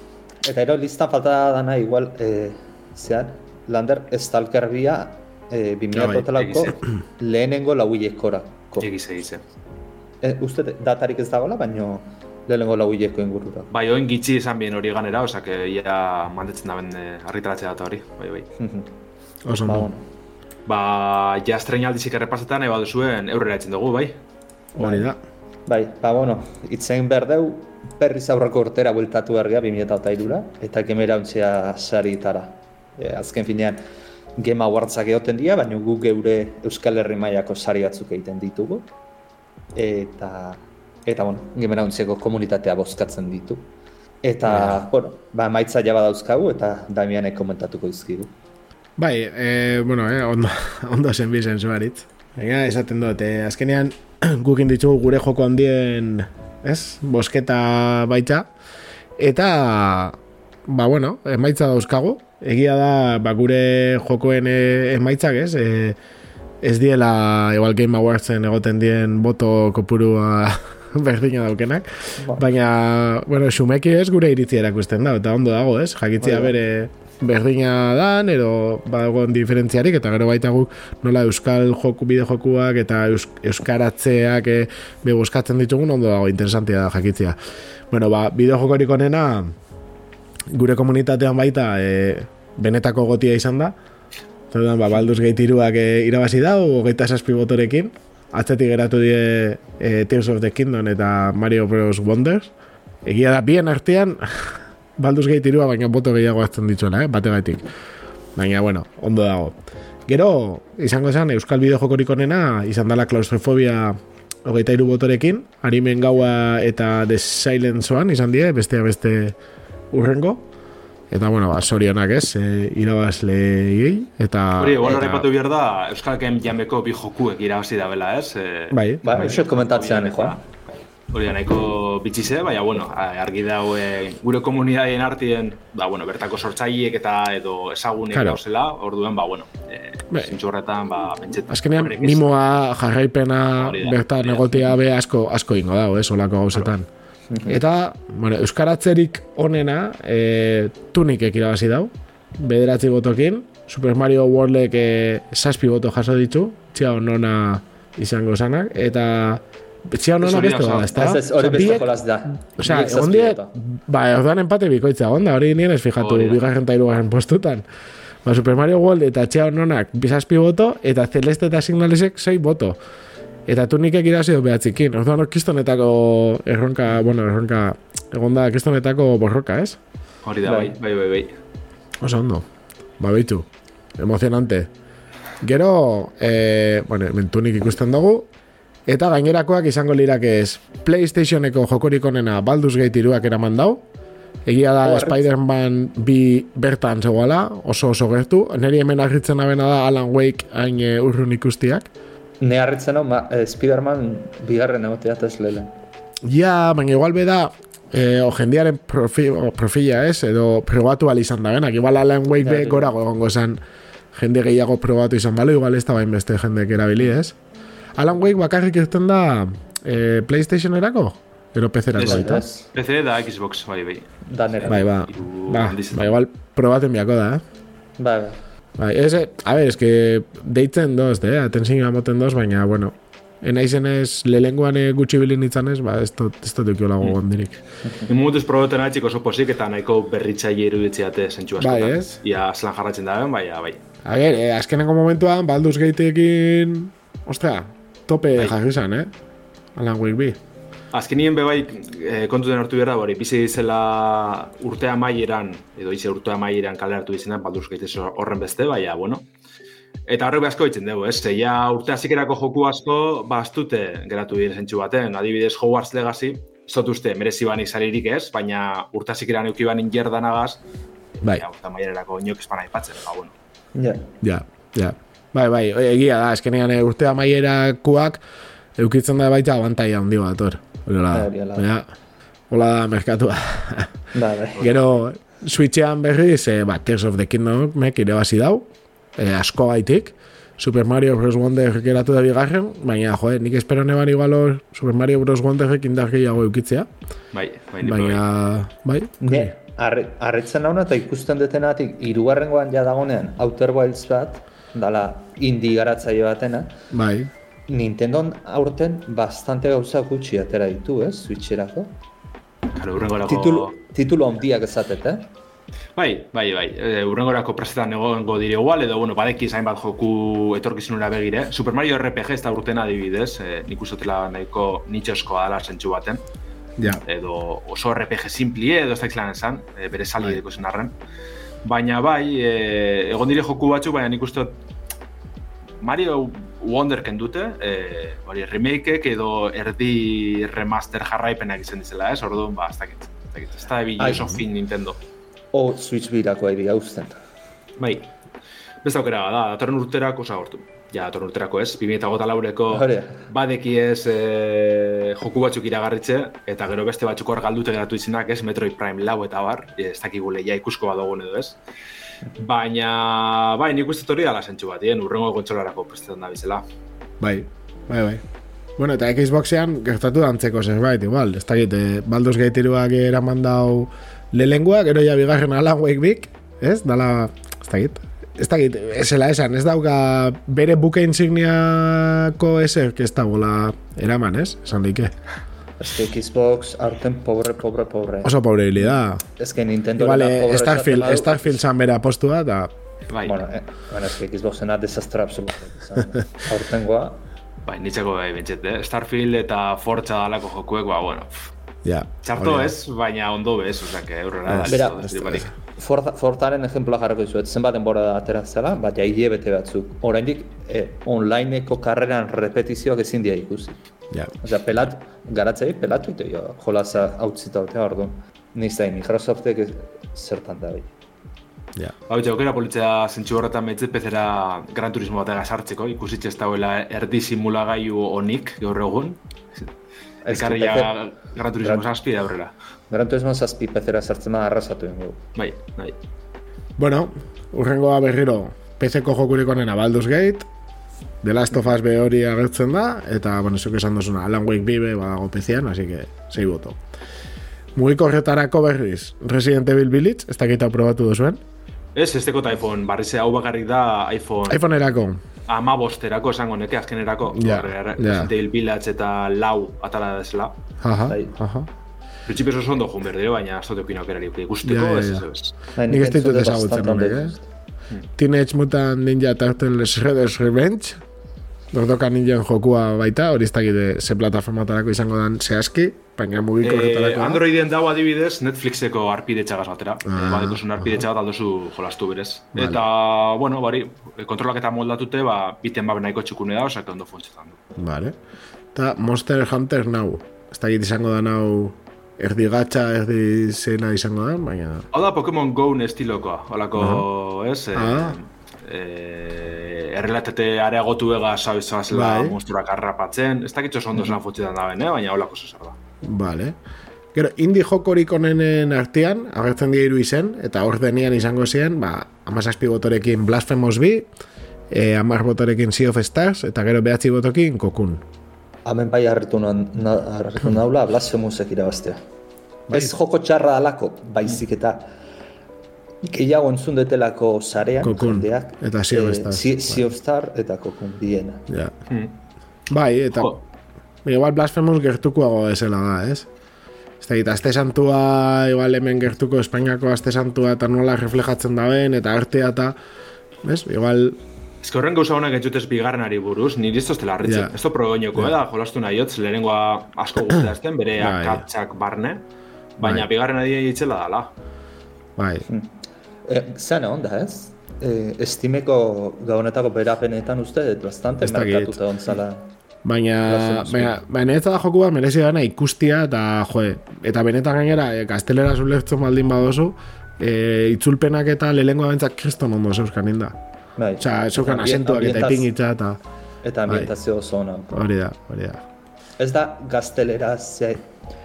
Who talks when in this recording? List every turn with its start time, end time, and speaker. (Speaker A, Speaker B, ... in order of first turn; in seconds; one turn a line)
Speaker A: 0.4-8.9
Speaker B: 5.9-6.2
Speaker C: 6.3-6.7
Speaker C: 8.8-9.4
Speaker A: 10.2-13.7
Speaker C: 13.7-18.5
Speaker A: 18.6-18.9
Speaker B: 19.4-19.9
Speaker A: 19.6-20.0
Speaker C: 20.6-24.2
Speaker B: 24.8-25.2
Speaker A: 24.8-25.1
Speaker A: 25.7-33.8
Speaker A: 34.4-38.9
Speaker A: 39.7-43.7
Speaker A: 44.2-48.3
Speaker B: 44.5-44.8
Speaker B: 49.0-58.5
Speaker B: 59.2-66.0
Speaker B: 66.6-87.3
Speaker A: 72.2-72.4
Speaker A: 76.2-76.5
Speaker B: 87.9-89.5
Speaker B: 90.5-93.7
Speaker B: 94.5-102.5
Speaker B: 103.0-107.6
Speaker B: 108.3-109.5
Speaker B: 110.1-119.3
Speaker B: 119.9-120.4
Speaker B: 121.1-125.2
Speaker C: 124.6-142.4
Speaker B: 128.7-129.0
Speaker A: 129.0-130.4
Speaker B: 138.1-138.4
Speaker B: 141.5-146.9
Speaker C: 143.5-144.6
Speaker A: 147.3-147.6
Speaker B: 147.4-161.9
Speaker C: 160.2-161.8
Speaker A: 160.9-163.5
Speaker B: 162.6-167.6
Speaker C: 166.0-166.4
Speaker B: 168.2-172.8
Speaker B: 173.5-179.8
Speaker C: 180.2-181.3
Speaker A: 180.4-180.7
Speaker B: 182.0-182.4
Speaker B: 183.0-183.4
Speaker B: 184.0-184.7
Speaker B: 185.4-188.3
Speaker B: 188.9-193.8
Speaker B: 194.4-201.9
Speaker A: 194.8-195.2
Speaker A: 202.4-205.7
Speaker B: 206.2-213.6
Speaker A: 212.4-212.9
Speaker B: 214.1-217.3
Speaker B: 218.0-222.4
Speaker C: 221.9-226.2
Speaker A: 222.0-222.7
Speaker A: 224.3-224.8
Speaker B: 224.7-227.4
Speaker A: 228.0-228.4
Speaker B: 228.8-237.6
Speaker C: 238.1-243.8
Speaker B: 241.6-242.2
Speaker B: 244.0-249.1
Speaker B: 249.7-250.4
Speaker C: 250.9-259.2
Speaker C: 260.1-270.6
Speaker C: 271.2-273.3
Speaker A: 273.7-274.1
Speaker B: 274.2-278.2
Speaker B: 278.8-281.9
Speaker A: 281.1-281.6
Speaker B: 282.5-283.9
Speaker A: 284.1-284.7
Speaker B: 284.6-296.9
Speaker C: 297.3-298.2
Speaker B: 297.8-299.5
Speaker A: 299.2-306.8
Speaker B: 306.9-307.3
Speaker A: 307.7-311.9
Speaker C: 312.7-313.7
Speaker A: 313.2-315.3
Speaker C: 315.9-326.2
Speaker B: 326.8-327.0
Speaker C: 327.0-330.9
Speaker C: 331.6-334.6
Speaker C: 335.8-345.0
Speaker A: 344.0-344.3
Speaker A: 345.5-347.2
Speaker C: 347.8-348.1
Speaker C: 348.8-361.6
Speaker A: 352.7-353.2
Speaker C: 362.4-366.6
Speaker B: 367.2-368.2
Speaker B: 368.8-385.1
Speaker A: 385.8-391.5
Speaker B: 388.2-389.2
Speaker B: 390.0-392.7
Speaker C: 393.1-393.4
Speaker A: 393.2-397.2
Speaker C: 397.6-401.5
Speaker B: 401.8-402.7
Speaker C: 402.2-405.5
Speaker B: 404.5-405.5
Speaker A: 404.7-413.8
Speaker A: 414.4-420.9
Speaker C: 422.1-429.7
Speaker A: 430.2-430.9
Speaker C: 430.3-432.5
Speaker A: 431.6-431.9
Speaker A: 432.9-435.2
Speaker C: 435.4-436.0
Speaker B: 436.8-440.5
Speaker B: 441.2-446.8
Speaker B: 447.7-451.4
Speaker C: 451.9-454.6
Speaker B: 454.5-455.2
Speaker C: 455.5-460.5
Speaker B: 457.3-458.3
Speaker B: 460.8-461.7
Speaker A: 461.1-461.4
Speaker C: 462.2-465.5
Speaker B: 464.6-465.2
Speaker A: 465.8-467.4
Speaker B: 465.9-467.3
Speaker B: 468.2-471.0
Speaker B: 471.7-477.4
Speaker C: 476.6-487.6
Speaker B: 480.1-481.0
Speaker B: 482.5-482.8
Speaker B: 487.8-488.1
Speaker B: 488.7-494.9
Speaker C: 494.9-505.8
Speaker B: 496.8-497.0
Speaker B: 497.7-498.2
Speaker B: 501.9-502.4
Speaker B: 506.0-506.6
Speaker B: 507.1-514.1
Speaker B: 514.7-518.0
Speaker A: 518.6-522.0
Speaker B: 522.7-523.0
Speaker A: 522.7-524.9
Speaker A: 526.0-531.5
Speaker B: 527.8-529.8
Speaker B: 531.5-531.7
Speaker C: 531.9-532.1
Speaker B: 532.7-533.4
Speaker C: 533.2-533.4
Speaker B: 534.0-536.3
Speaker B: 537.0-542.8
Speaker B: 543.4-544.2
Speaker C: 544.6-552.2
Speaker B: 547.2-547.5
Speaker B: 551.0-551.4
Speaker C: 552.8-554.3
Speaker B: 555.2-555.4
Speaker A: 555.5-562.5
Speaker B: 561.2-561.8
Speaker B: 562.8-573.4
Speaker A: 563.2-563.9
Speaker A: 573.8-575.5
Speaker B: 574.0-576.0
Speaker A: 576.4-577.8
Speaker B: 577.7-578.6
Speaker A: 579.2-580.9